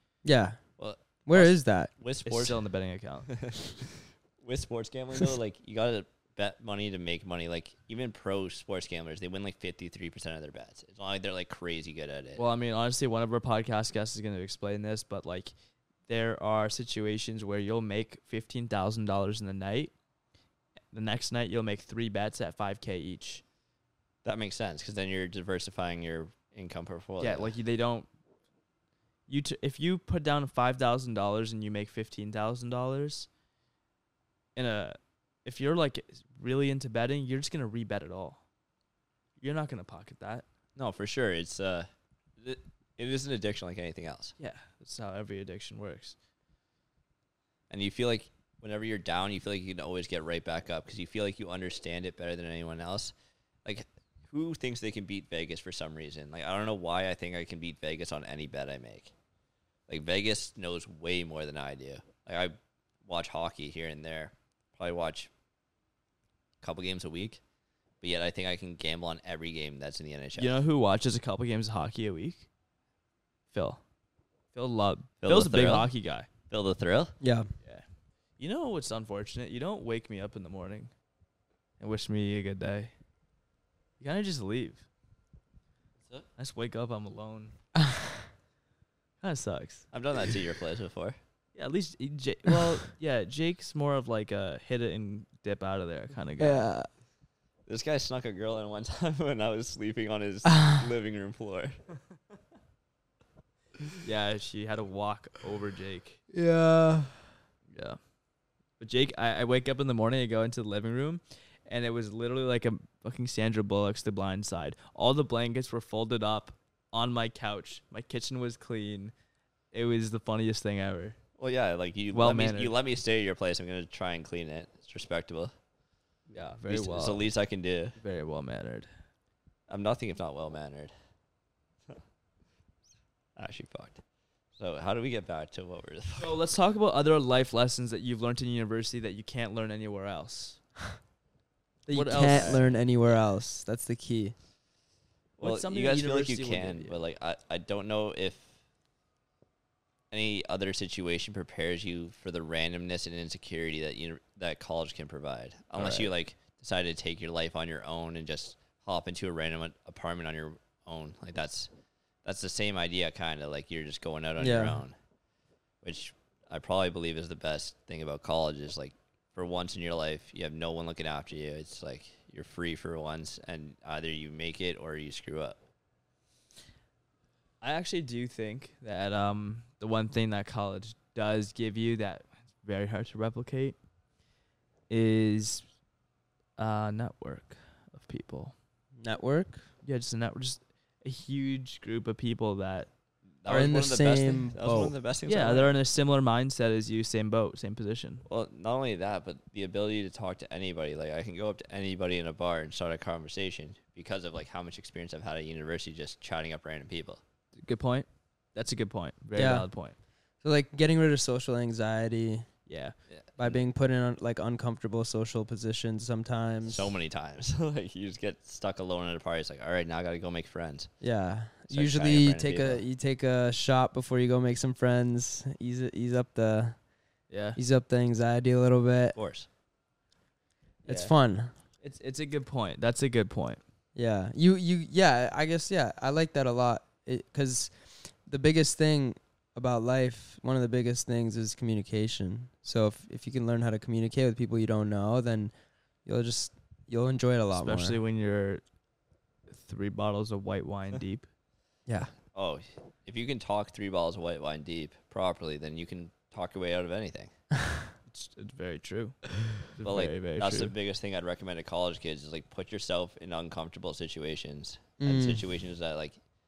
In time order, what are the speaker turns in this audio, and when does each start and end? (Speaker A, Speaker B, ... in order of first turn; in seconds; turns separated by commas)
Speaker A: 0.2-0.6, Speaker B: 0.8-2.6, Speaker A: 1.2-1.9, Speaker C: 2.2-3.3, Speaker B: 3.3-12.4, Speaker C: 12.3-15.5, Speaker C: 16.1-19.9, Speaker C: 20.9-23.4, Speaker B: 24.2-27.5, Speaker C: 27.2-28.1, Speaker C: 29.3-33.3, Speaker C: 34.5-38.4, Speaker C: 39.4-40.4, Speaker B: 40.8-41.9, Speaker B: 42.4-44.3, Speaker C: 44.4-46.1, Speaker B: 47.7-53.1, Speaker B: 53.6-59.1, Speaker B: 59.9-62.5, Speaker B: 63.0-65.3, Speaker B: 66.6-67.4, Speaker B: 68.0-70.6, Speaker C: 70.3-72.5, Speaker C: 73.5-73.8, Speaker C: 74.5-76.3, Speaker B: 75.2-75.9, Speaker B: 76.5-77.1, Speaker A: 77.2-77.5, Speaker C: 78.4-80.9, Speaker C: 81.8-82.9, Speaker C: 84.0-84.8, Speaker C: 86.4-87.5, Speaker A: 87.8-88.3, Speaker C: 89.2-89.9, Speaker B: 89.9-91.2, Speaker C: 91.5-96.7, Speaker A: 96.4-96.9, Speaker B: 97.7-101.8, Speaker C: 104.0-106.2, Speaker A: 106.3-107.2, Speaker C: 107.7-108.0, Speaker C: 108.8-119.1, Speaker C: 119.7-121.2, Speaker B: 121.4-125.5, Speaker C: 122.1-122.7, Speaker C: 126.3-127.2, Speaker B: 126.7-128.0, Speaker C: 128.0-128.9, Speaker B: 129.7-130.9, Speaker B: 133.3-134.0, Speaker B: 134.6-136.3, Speaker C: 136.2-140.6, Speaker A: 141.9-144.3, Speaker C: 141.9-142.6, Speaker B: 142.3-142.6, Speaker C: 145.4-147.0, Speaker B: 145.4-148.5, Speaker B: 150.1-161.7, Speaker C: 155.8-156.1, Speaker B: 162.2-164.9, Speaker A: 164.4-164.8, Speaker B: 165.8-175.6, Speaker C: 177.6-183.8, Speaker C: 184.9-185.6, Speaker C: 186.6-188.5, Speaker A: 189.0-189.6, Speaker C: 189.8-192.9, Speaker B: 193.4-195.7, Speaker A: 193.5-194.9, Speaker C: 195.2-198.2, Speaker B: 198.2-207.2, Speaker C: 207.6-209.9, Speaker A: 209.3-209.7, Speaker A: 210.4-212.4, Speaker C: 212.7-212.9, Speaker B: 213.1-213.6, Speaker A: 213.4-216.9, Speaker B: 216.7-220.9, Speaker A: 221.0-226.8, Speaker B: 221.7-222.8, Speaker C: 227.3-227.6, Speaker A: 227.6-229.2, Speaker B: 229.1-229.5, Speaker C: 230.8-231.1, Speaker A: 230.8-231.5, Speaker C: 231.8-233.6, Speaker A: 233.9-245.5, Speaker A: 246.0-248.0, Speaker C: 247.5-248.6, Speaker C: 249.5-251.3, Speaker A: 251.9-252.1, Speaker B: 252.3-257.3, Speaker C: 258.1-260.7, Speaker B: 259.8-266.2, Speaker A: 265.0-265.4